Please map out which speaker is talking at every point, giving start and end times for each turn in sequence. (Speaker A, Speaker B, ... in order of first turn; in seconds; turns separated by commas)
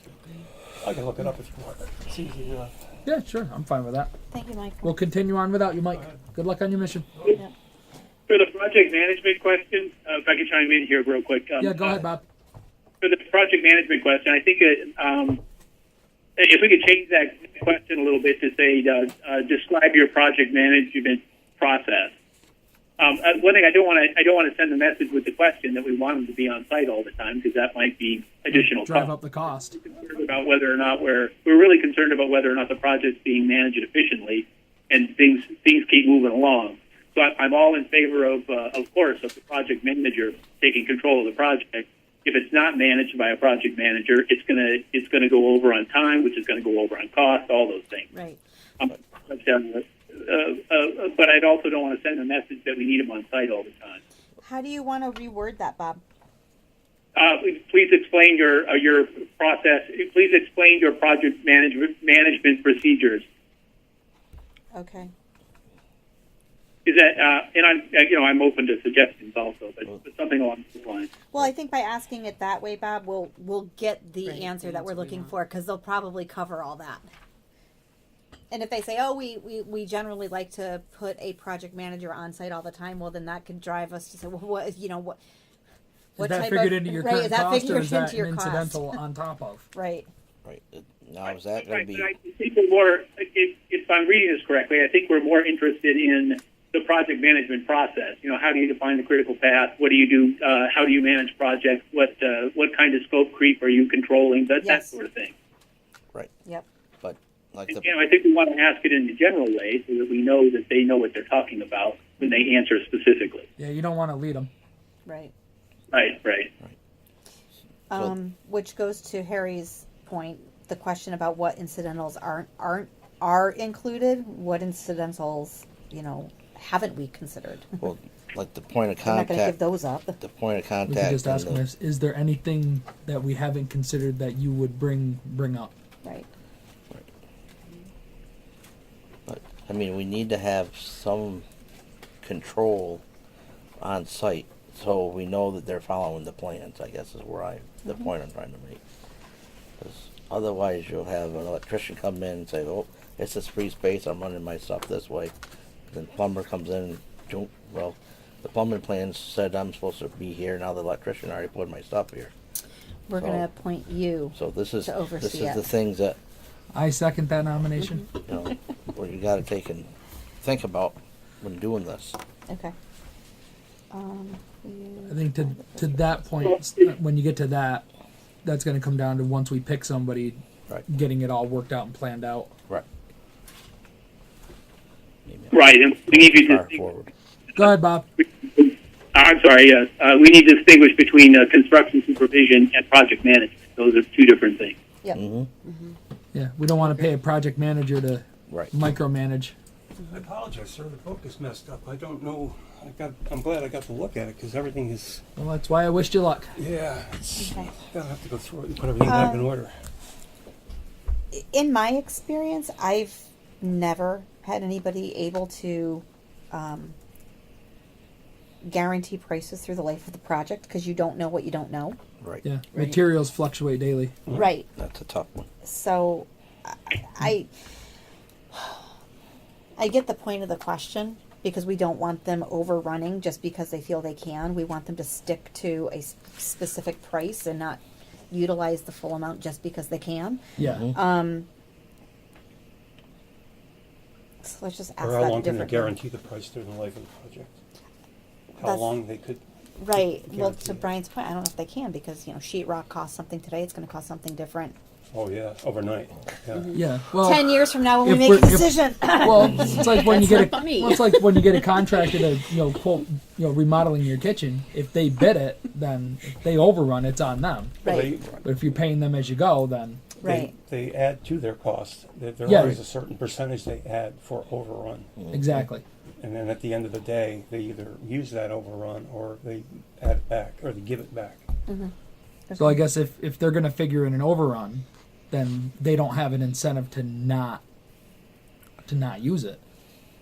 Speaker A: 0.8-2.7, Speaker B: 3.1-4.1, Speaker C: 4.3-4.9, Speaker B: 4.8-7.3, Speaker D: 8.3-12.0, Speaker B: 11.6-12.2, Speaker D: 13.0-15.4, Speaker D: 16.4-22.1, Speaker D: 23.0-29.1, Speaker B: 28.5-29.8, Speaker D: 29.7-48.1, Speaker C: 48.1-48.4, Speaker D: 48.8-54.0, Speaker C: 54.4-56.0, Speaker D: 57.2-63.2, Speaker C: 64.7-65.1, Speaker D: 66.8-71.1, Speaker C: 71.3-77.0, Speaker C: 78.5-85.2, Speaker B: 86.2-89.7, Speaker C: 86.2-89.0, Speaker C: 89.7-90.1, Speaker E: 90.5-92.1, Speaker D: 91.6-105.3, Speaker C: 104.6-105.0, Speaker E: 107.0-107.9, Speaker D: 107.7-113.5, Speaker C: 112.2-112.5, Speaker B: 113.6-114.5, Speaker C: 115.1-115.3, Speaker D: 115.9-116.5, Speaker C: 117.9-127.9, Speaker E: 127.8-129.6, Speaker C: 129.1-130.2, Speaker E: 130.2-131.6, Speaker B: 130.9-135.7, Speaker E: 139.3-141.4, Speaker E: 142.2-143.0, Speaker E: 143.8-148.8, Speaker E: 149.8-155.3, Speaker E: 155.9-162.3, Speaker C: 163.1-165.6, Speaker E: 163.2-163.5, Speaker E: 164.3-166.2, Speaker B: 166.7-168.1, Speaker C: 167.8-168.1, Speaker E: 168.2-169.9, Speaker E: 170.4-172.2, Speaker C: 172.5-172.7, Speaker C: 173.9-175.2, Speaker B: 175.1-177.8, Speaker B: 178.4-182.5, Speaker E: 185.3-185.6, Speaker D: 185.5-186.8, Speaker E: 186.1-187.1, Speaker B: 187.6-188.1, Speaker D: 188.2-194.8, Speaker E: 195.1-195.5, Speaker B: 196.3-199.6, Speaker A: 200.1-205.2, Speaker B: 205.4-206.5, Speaker A: 206.6-209.8, Speaker C: 207.4-207.7, Speaker C: 209.0-209.5, Speaker C: 211.3-217.0, Speaker C: 218.6-222.0, Speaker B: 222.4-224.2, Speaker C: 224.3-224.7, Speaker E: 224.3-225.5, Speaker C: 225.6-227.5, Speaker C: 228.5-228.9, Speaker C: 229.8-241.5, Speaker B: 240.6-240.9, Speaker E: 240.7-240.9, Speaker C: 244.4-245.9, Speaker A: 245.0-247.6, Speaker A: 248.6-249.4, Speaker C: 248.6-248.9, Speaker C: 249.8-254.8, Speaker A: 249.9-250.8, Speaker A: 255.1-256.8, Speaker B: 256.7-267.8, Speaker C: 257.1-261.9, Speaker C: 267.8-268.2, Speaker A: 267.9-268.4, Speaker B: 268.4-270.1, Speaker C: 270.2-270.5, Speaker A: 270.2-275.1, Speaker B: 272.5-272.8, Speaker E: 275.2-275.7, Speaker B: 275.3-275.8, Speaker A: 276.2-281.4, Speaker C: 281.7-281.9, Speaker C: 282.5-282.8, Speaker B: 282.6-287.6, Speaker B: 288.9-289.6